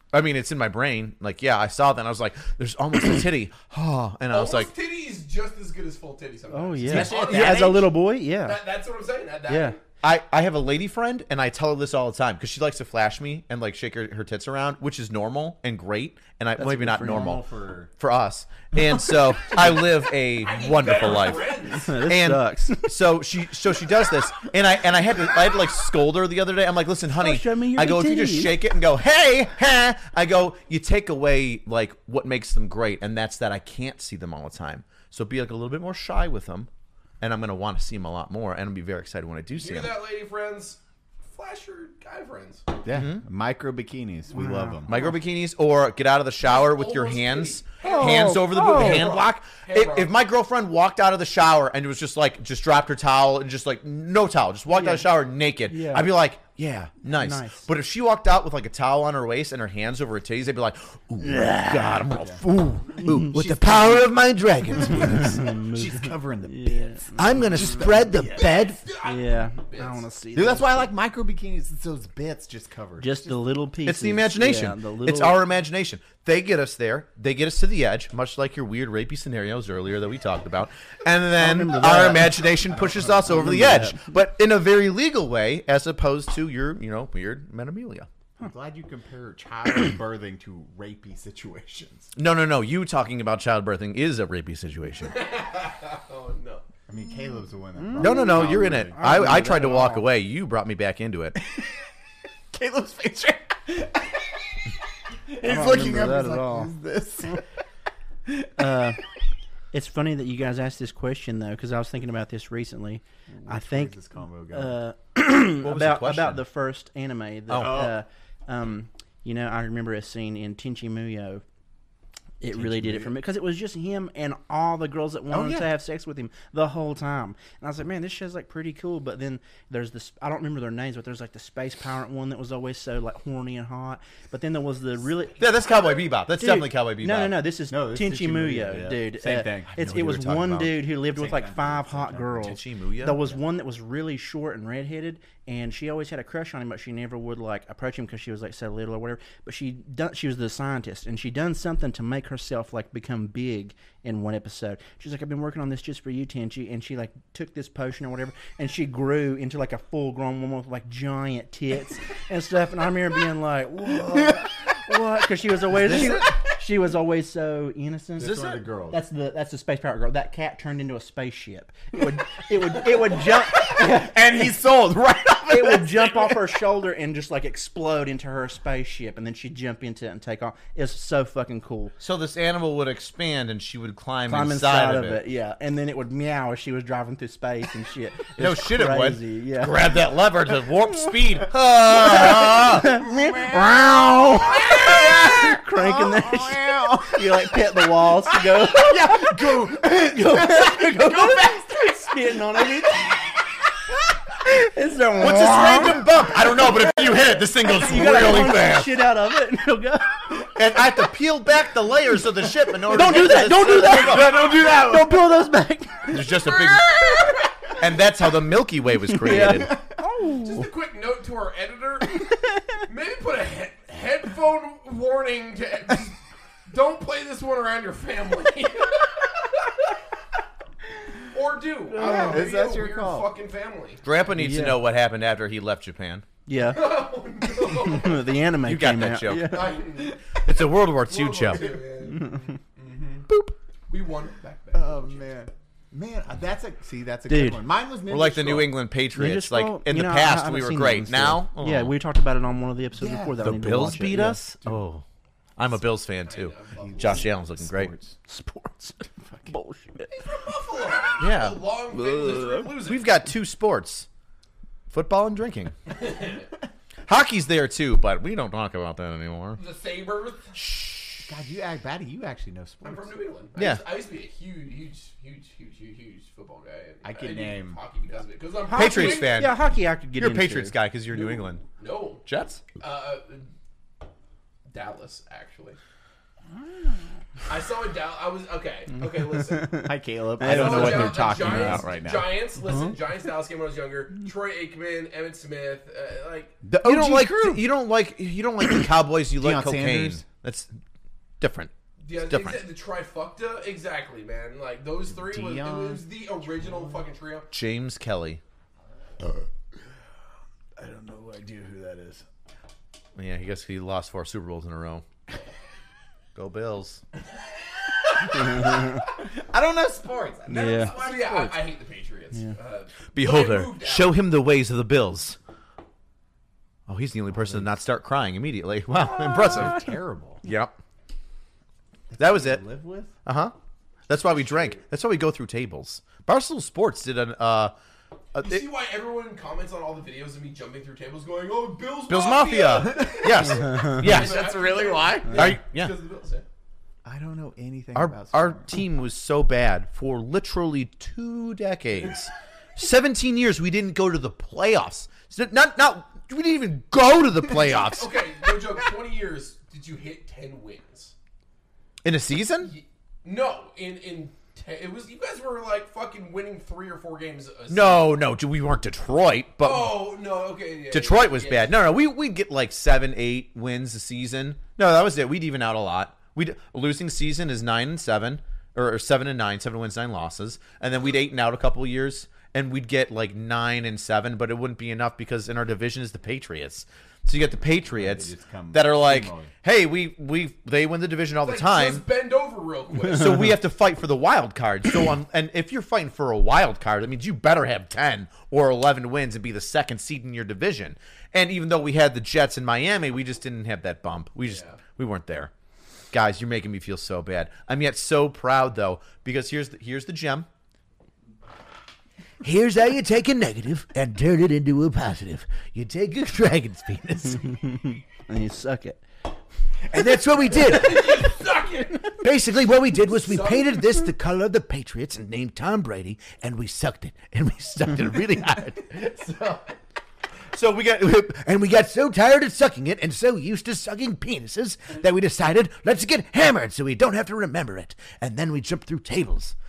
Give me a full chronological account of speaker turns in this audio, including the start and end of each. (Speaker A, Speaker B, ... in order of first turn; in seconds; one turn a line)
Speaker A: 0.1-4.7
Speaker B: 4.3-7.9
Speaker C: 6.5-8.6
Speaker D: 6.9-7.9
Speaker A: 6.9-7.3
Speaker B: 8.4-9.8
Speaker C: 9.5-9.8
Speaker A: 10.0-17.4
Speaker C: 16.6-17.4
Speaker D: 16.9-17.9
Speaker A: 18.0-36.7
Speaker D: 18.8-19.7
Speaker B: 20.4-21.9
Speaker C: 21.7-23.0
Speaker C: 27.2-28.6
Speaker A: 37.2-40.0
Speaker B: 39.6-40.8
Speaker B: 41.3-42.6
Speaker D: 42.8-45.0
Speaker A: 42.9-43.2
Speaker C: 44.3-45.2
Speaker A: 44.9-62.4
Speaker B: 46.4-50.1
Speaker C: 47.8-49.1
Speaker C: 54.7-55.1
Speaker C: 55.7-56.1
Speaker C: 57.0-57.7
Speaker C: 61.2-62.0
Speaker D: 62.1-62.4
Speaker E: 62.2-65.3
Speaker C: 63.0-63.3
Speaker D: 63.2-64.1
Speaker D: 64.8-68.3
Speaker C: 64.9-68.1
Speaker E: 67.2-68.8
Speaker B: 68.1-70.1
Speaker C: 69.0-70.9
Speaker D: 70.3-73.4
Speaker C: 73.0-75.4
Speaker A: 73.8-88.1
Speaker C: 81.4-82.5
Speaker D: 82.8-83.2
Speaker C: 83.2-84.0
Speaker D: 88.4-92.1
Speaker A: 92.2-95.2
Speaker B: 95.0-96.7
Speaker D: 96.9-99.1
Speaker C: 97.8-100.1
Speaker A: 98.0-101.4
Speaker D: 101.4-101.7
Speaker D: 102.5-104.3
Speaker D: 105.3-107.4
Speaker C: 105.4-106.7
Speaker C: 108.6-109.0
Speaker C: 109.7-114.0
Speaker D: 113.3-114.8
Speaker C: 114.5-121.4
Speaker A: 115.6-116.4
Speaker A: 117.5-117.9
Speaker D: 117.6-118.0
Speaker C: 122.4-135.4
Speaker D: 122.5-123.1
Speaker D: 125.3-125.7
Speaker A: 135.4-137.5
Speaker B: 135.6-136.0
Speaker C: 136.4-174.2
Speaker D: 137.7-139.8
Speaker A: 139.7-140.8
Speaker D: 140.9-142.6
Speaker A: 142.4-143.2
Speaker A: 165.8-166.2
Speaker D: 168.2-169.0
Speaker A: 168.2-168.6
Speaker D: 173.1-176.3
Speaker C: 175.5-181.9
Speaker A: 182.0-185.2
Speaker C: 184.3-189.9
Speaker A: 188.4-193.0
Speaker D: 191.9-197.3
Speaker C: 192.5-203.4
Speaker A: 193.7-194.6
Speaker D: 198.6-202.2
Speaker C: 204.4-206.1
Speaker A: 205.2-209.0
Speaker C: 207.7-210.4
Speaker A: 210.6-214.5
Speaker C: 212.9-217.2
Speaker D: 213.8-215.2
Speaker A: 216.1-217.0
Speaker B: 216.3-217.4
Speaker A: 217.8-219.8
Speaker C: 219.1-220.7
Speaker B: 220.4-222.2
Speaker C: 222.3-222.6
Speaker B: 222.9-229.3
Speaker B: 231.3-234.1
Speaker C: 231.9-232.5
Speaker D: 231.9-233.3
Speaker A: 234.0-236.3
Speaker C: 234.3-234.8
Speaker C: 236.5-237.0
Speaker B: 236.6-238.3
Speaker C: 237.7-239.8
Speaker A: 238.6-239.7
Speaker B: 239.4-240.3
Speaker A: 240.2-241.8
Speaker B: 241.0-243.3
Speaker C: 242.1-242.5
Speaker B: 243.9-245.3
Speaker D: 244.7-248.8
Speaker C: 247.3-247.6
Speaker A: 248.1-252.0
Speaker C: 249.1-254.4
Speaker D: 253.0-253.5
Speaker A: 253.4-255.0
Speaker A: 255.6-257.9
Speaker B: 256.2-257.3
Speaker D: 256.8-258.1
Speaker C: 258.3-260.2
Speaker B: 260.1-263.1
Speaker A: 261.2-261.6
Speaker C: 262.0-262.6
Speaker A: 262.8-264.1
Speaker A: 264.9-265.8
Speaker B: 265.9-266.5
Speaker A: 267.1-269.6
Speaker B: 269.6-270.6
Speaker A: 270.6-271.3
Speaker D: 271.2-273.1
Speaker B: 272.8-279.5
Speaker A: 273.6-273.8
Speaker D: 277.0-277.8
Speaker C: 278.7-280.8
Speaker A: 278.7-279.6
Speaker A: 280.2-281.6
Speaker B: 281.1-282.2
Speaker A: 282.2-282.6
Speaker B: 282.8-283.5
Speaker B: 284.7-285.8
Speaker B: 287.5-289.8
Speaker C: 289.4-291.8
Speaker D: 289.8-292.4
Speaker B: 290.4-296.6
Speaker C: 292.6-293.0
Speaker D: 296.6-297.7
Speaker A: 296.8-300.7
Speaker D: 299.3-300.2
Speaker A: 301.4-302.6
Speaker B: 302.0-307.5
Speaker D: 305.1-307.1
Speaker A: 307.5-308.4
Speaker D: 310.8-312.2
Speaker A: 313.2-315.1
Speaker A: 316.4-317.0
Speaker C: 318.3-319.0
Speaker D: 318.3-321.7
Speaker C: 320.5-321.0
Speaker B: 320.5-324.2
Speaker A: 323.1-325.4
Speaker A: 326.9-329.9
Speaker D: 329.2-330.4
Speaker A: 330.4-330.7
Speaker D: 332.1-333.1
Speaker A: 332.2-332.6
Speaker A: 333.2-333.5
Speaker A: 334.1-337.7
Speaker A: 338.4-338.6
Speaker B: 338.4-346.5
Speaker A: 342.1-344.4
Speaker D: 342.7-345.6
Speaker C: 343.5-344.0
Speaker A: 345.3-345.9
Speaker D: 347.0-348.7
Speaker A: 347.9-358.1
Speaker B: 357.6-361.1
Speaker A: 362.0-362.7
Speaker B: 362.6-368.1
Speaker A: 367.7-370.0
Speaker B: 369.6-371.8
Speaker A: 370.9-392.0
Speaker D: 387.9-389.5
Speaker B: 391.4-393.5
Speaker A: 393.0-405.5
Speaker B: 404.5-404.8
Speaker A: 406.1-410.5
Speaker E: 412.4-417.4
Speaker C: 417.5-419.0
Speaker E: 419.9-421.4
Speaker B: 420.5-422.2
Speaker E: 422.2-428.8
Speaker B: 423.1-424.1
Speaker B: 429.0-429.7
Speaker E: 430.6-439.5